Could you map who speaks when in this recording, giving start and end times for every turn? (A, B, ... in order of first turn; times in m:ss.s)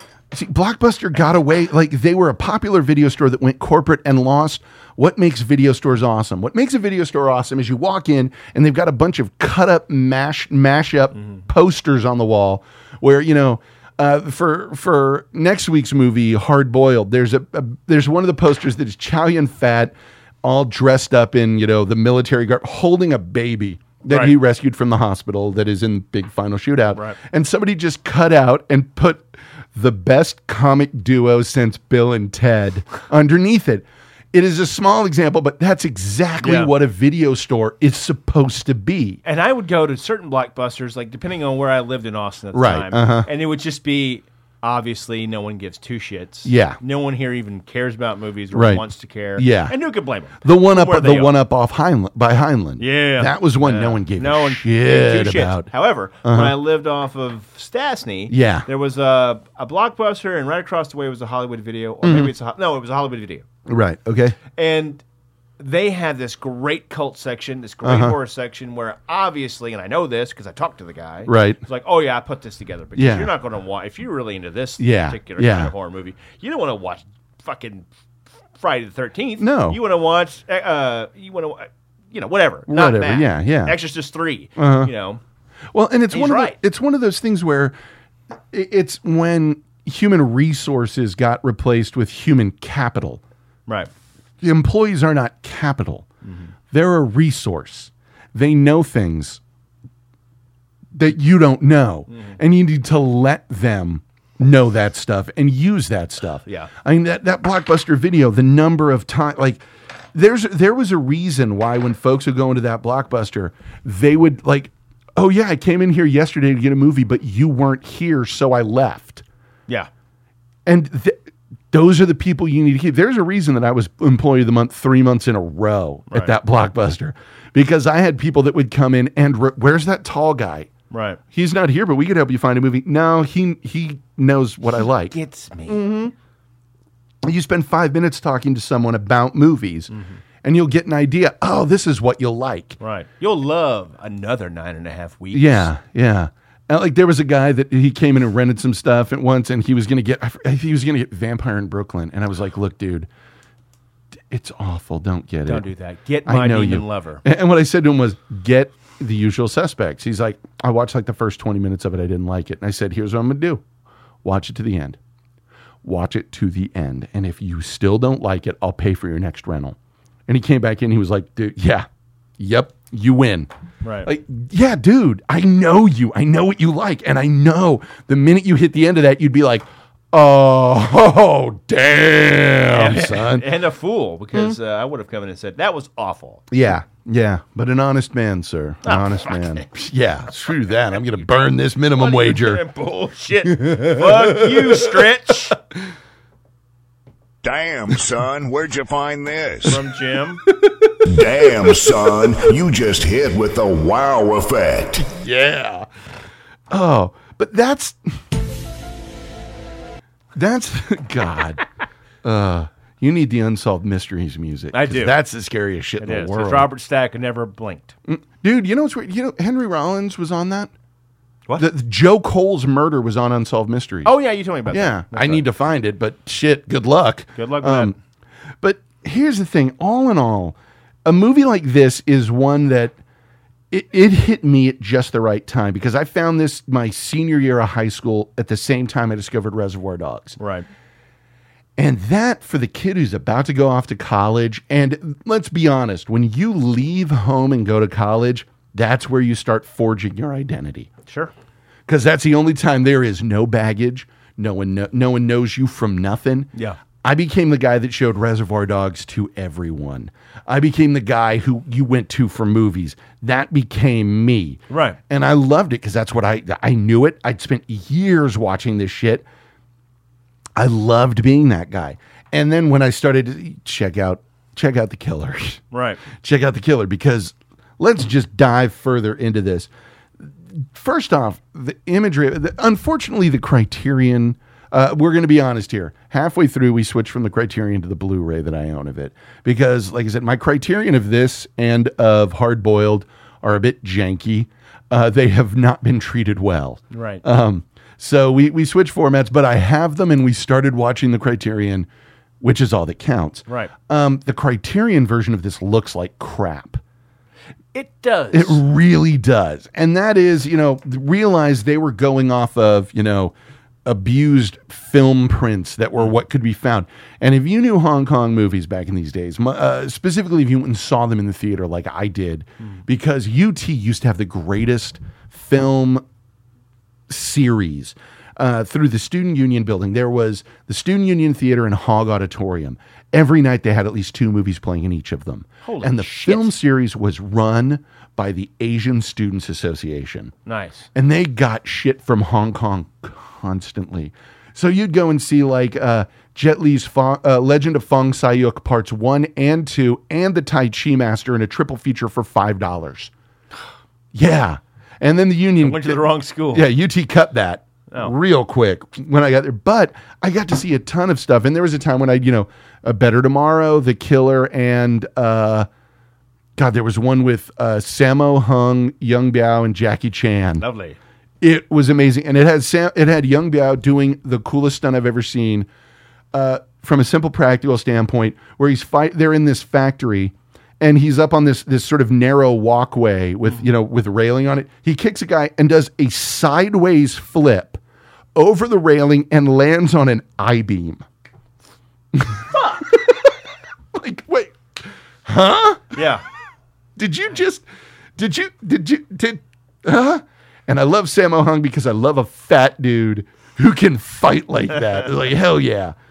0:00.3-0:39.2 A
0:24.1-0:24.3 B
0:36.4-0:36.7 B
0:39.2-0:51.4 B
0:42.5-0:43.3 A
0:46.4-0:46.8 A
0:48.5-0:48.8 A
0:49.4-0:49.7 A
0:50.4-0:55.7 A
0:52.8-1:03.4 B
0:56.2-0:56.6 A
0:58.3-0:58.7 A
1:02.0-1:02.3 A
1:03.7-1:04.4 A
1:04.6-1:05.0 B
1:05.6-1:17.9 B
1:07.8-1:08.2 A
1:11.3-1:11.6 A
1:13.0-1:13.3 A
1:14.8-1:15.7 A
1:18.6-1:25.2 B
1:19.4-1:19.8 A
1:22.7-1:23.8 A
1:24.6-1:24.9 A
1:25.7-1:27.8 A
1:26.1-1:26.6 B
1:28.5-1:33.2 A
1:34.4-1:36.1 A
1:36.2-1:36.5 B
1:36.7-1:39.4 A
1:41.0-1:49.6 A
1:42.1-1:42.4 B
1:46.5-1:46.7 B
1:50.1-1:59.2 A
2:00.7-2:01.2 A
2:01.7-2:10.7 A
2:10.9-2:11.2 B
2:11.3-2:15.2 A
2:15.1-2:15.8 B
2:15.7-2:16.1 A
2:17.2-2:19.9 A
2:19.9-2:20.2 B
2:20.4-2:22.8 A
2:22.8-2:25.7 B
2:25.3-2:33.1 A
2:34.3-2:35.7 A
2:35.5-2:37.2 B
2:36.2-2:43.6 A
2:44.2-2:45.0 A
2:45.8-2:49.8 A
2:50.3-2:51.9 A
2:52.4-2:53.5 A
2:53.8-2:54.1 B
2:54.0-3:03.5 A
3:02.7-3:06.4 B
3:06.5-3:12.6 A
3:08.9-3:09.7 B
3:12.0-3:15.6 B
3:13.5-3:15.0 A
3:17.4-3:19.8 C
3:19.6-3:20.4 B
3:20.4-3:21.0 A
3:21.0-3:25.0 C
3:21.6-3:22.2 A
3:25.0-3:25.9 A
3:26.7-3:28.2 A
3:30.4-3:31.6 A
3:32.2-3:36.7 A
3:34.7-3:35.2 B
3:36.0-3:37.9 B
3:38.1-3:40.7 A
3:41.6-3:44.1 A
3:44.0-3:45.4 B
3:44.7-3:48.0 A
3:47.4-3:48.0 B
3:48.6-3:53.0 A
3:53.7-4:00.4 A
4:00.4-4:00.7 B
4:01.8-4:10.9 A
4:11.1-4:11.3 B
4:11.9-4:16.5 A
4:17.0-4:29.2 A
4:24.7-4:25.0 B
4:30.6-4:39.7 A
4:35.7-4:36.0 B
4:40.7-5:01.9 A
4:56.9-4:57.2 B
5:02.4-5:06.8 A
5:07.7-5:08.6 B
5:08.3-5:13.3 A
5:13.8-5:26.0 A
5:27.1-5:40.3 A
5:35.6-5:36.5 B
5:40.5-5:40.9 B
5:40.9-5:53.1 A
5:54.1-6:05.7 A
5:55.6-5:56.7 B
6:06.6-6:10.6 A
6:10.6-6:11.0 B
6:11.4-6:15.7 A
6:16.3-6:27.8 A
6:28.4-6:31.0 A
6:32.1-6:33.3 A
6:33.9-6:34.6 A
6:35.3-6:36.0 A
6:36.0-6:36.2 B
6:37.0-6:37.7 A
6:38.2-6:46.0 A